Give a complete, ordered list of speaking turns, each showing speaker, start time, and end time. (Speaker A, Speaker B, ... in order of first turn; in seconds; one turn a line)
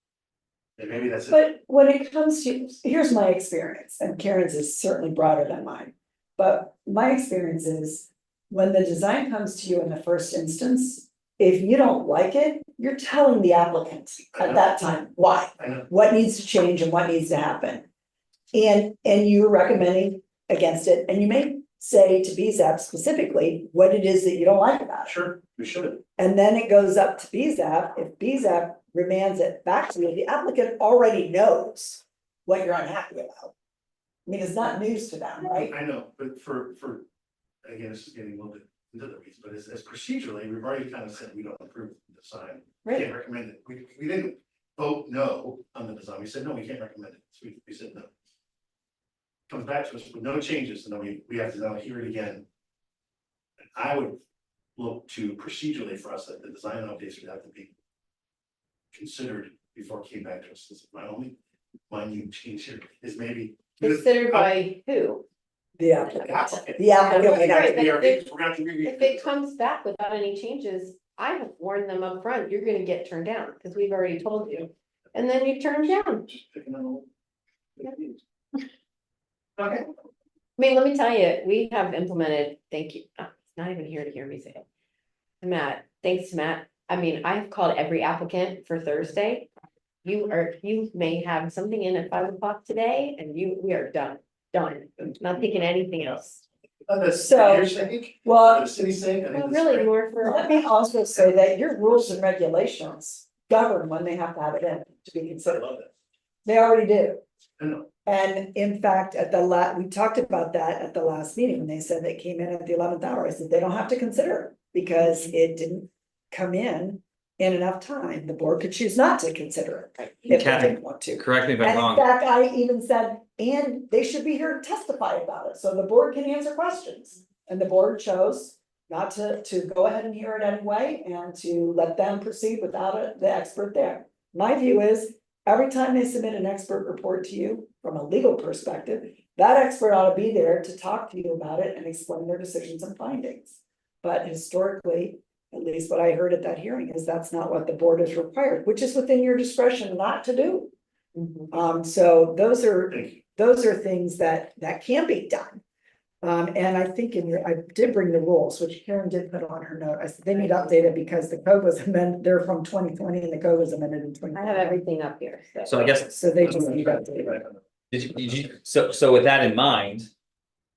Speaker A: 0.8-1.4
Speaker B: 1.3-17.9
Speaker A: 14.3-14.6
Speaker A: 15.6-15.8
Speaker B: 18.5-25.1
Speaker A: 25.1-26.0
Speaker B: 26.2-33.5
Speaker B: 34.3-35.7
Speaker A: 35.6-37.0
Speaker A: 37.6-48.1
Speaker A: 49.5-52.5
Speaker A: 53.8-54.2
Speaker A: 54.8-57.7
Speaker A: 58.9-61.4
Speaker A: 61.9-64.5
Speaker C: 63.8-65.2
Speaker B: 65.8-67.9
Speaker C: 66.0-76.2
Speaker A: 66.2-69.3
Speaker A: 76.2-77.1
Speaker A: 77.8-78.2
Speaker A: 79.6-79.9
Speaker C: 80.6-84.7
Speaker C: 85.4-89.5
Speaker C: 90.0-96.4
Speaker A: 96.9-99.9
Speaker B: 97.2-98.7
Speaker C: 99.3-100.7
Speaker B: 100.2-105.7
Speaker A: 105.5-105.9
Speaker B: 106.5-107.2
Speaker A: 107.6-107.9
Speaker B: 108.1-150.7
Speaker C: 115.0-115.3
Speaker D: 120.3-122.0
Speaker C: 151.2-151.5
Speaker B: 151.5-155.6
Speaker A: 152.9-153.2
Speaker B: 156.2-164.8
Speaker C: 160.3-160.8
Speaker C: 164.3-166.1
Speaker D: 165.7-166.1
Speaker B: 166.1-167.4
Speaker A: 166.4-167.6
Speaker D: 167.9-170.1